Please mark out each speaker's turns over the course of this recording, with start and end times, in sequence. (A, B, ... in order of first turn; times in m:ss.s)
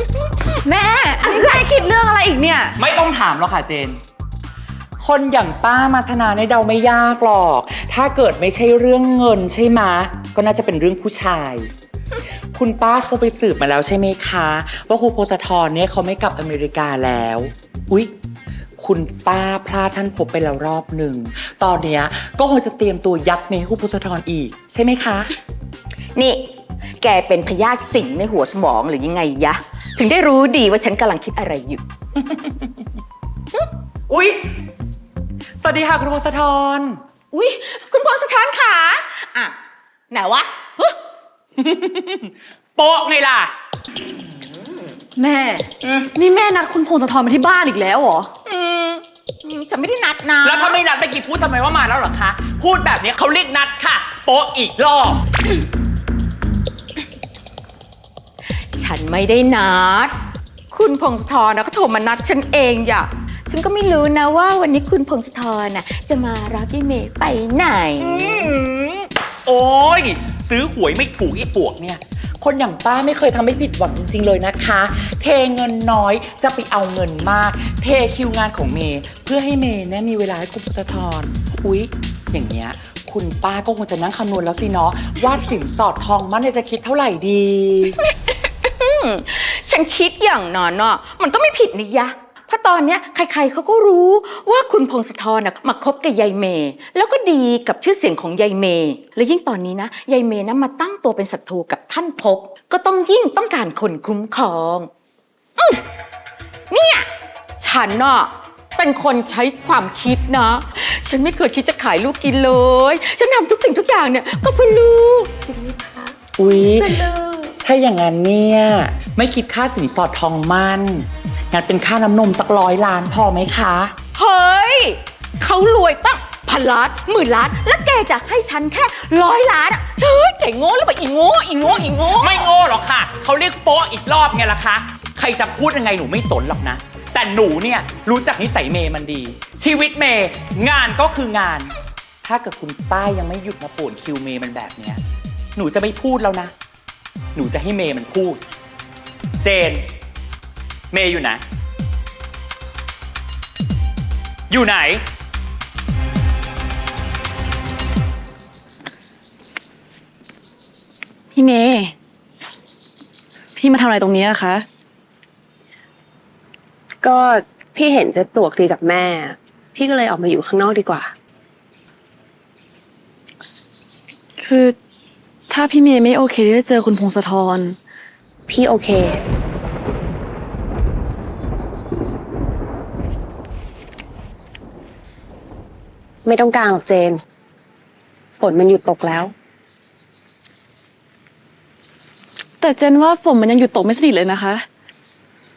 0:00.6-0:01.6 A
0:01.2-0:02.7 B
0:02.8-0:04.0 C
0:05.0-0:11.7 C
0:12.5-0:18.1 C
0:18.8-0:25.3 C
0:26.2-0:31.8 A
0:34.1-0:34.5 C
0:35.6-0:37.0 C
0:37.3-0:39.6 A
0:40.1-0:41.0 A
0:41.6-0:43.5 C
0:45.2-0:48.3 B
0:48.4-0:50.8 A
0:50.4-0:55.2 C
0:58.7-1:00.2 A
1:00.7-1:08.3 A
1:08.0-1:28.0 C
1:28.0-1:44.9 A
1:45.6-1:45.8 A
1:46.7-1:47.1 A
1:47.6-1:56.1 A
1:56.4-1:57.0 C
1:56.7-1:57.5 A
1:57.6-2:03.9 C
2:04.1-2:12.5 A
2:12.2-2:25.0 C
2:25.6-2:26.5 C
2:27.3-2:28.4 C
2:29.4-2:29.8 C
2:30.9-2:31.4 C
2:34.5-2:35.0 C
2:41.3-2:41.9 B
2:43.6-2:44.6 B
2:47.0-2:51.1 D
2:54.4-2:54.8 B
2:55.5-2:57.8 B
2:58.5-2:59.2 D
3:06.2-3:07.2 D
3:08.4-3:09.3 D
3:12.6-3:14.6 B